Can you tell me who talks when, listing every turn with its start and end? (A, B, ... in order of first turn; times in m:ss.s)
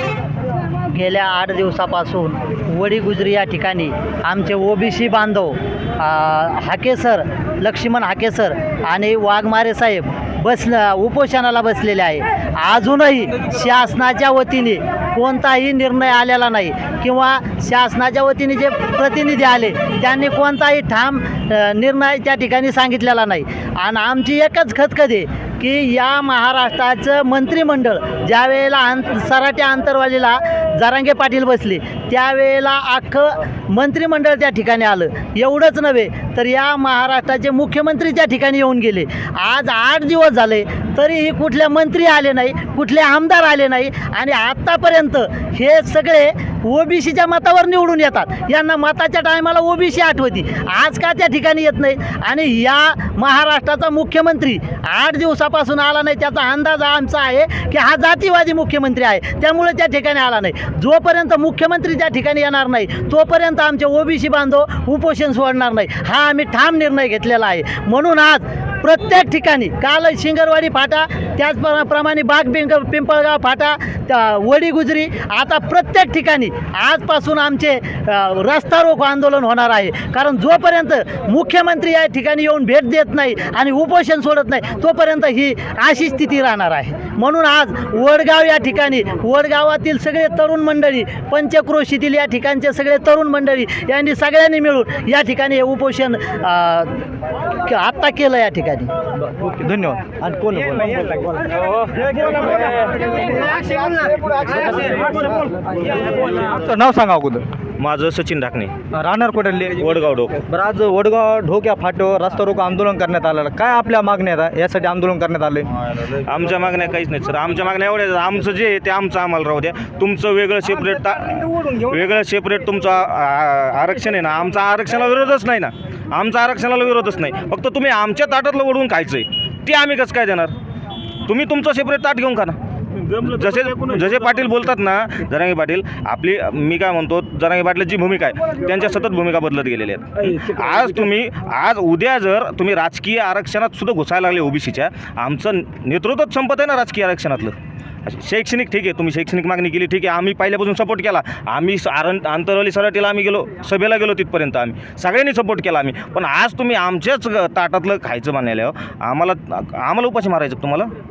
0:00.9-1:37.0 A
1:37.6-1:38.9 A
1:39.2-1:41.1 B
1:43.9-1:45.1 B
1:46.4-1:47.4 B
1:47.8-1:48.7 C
1:49.0-1:49.8 B
1:49.8-1:50.4 C
1:50.5-1:55.7 B
1:56.0-2:10.6 C
2:11.3-2:12.6 C
2:13.1-2:27.5 C
2:28.1-2:40.9 C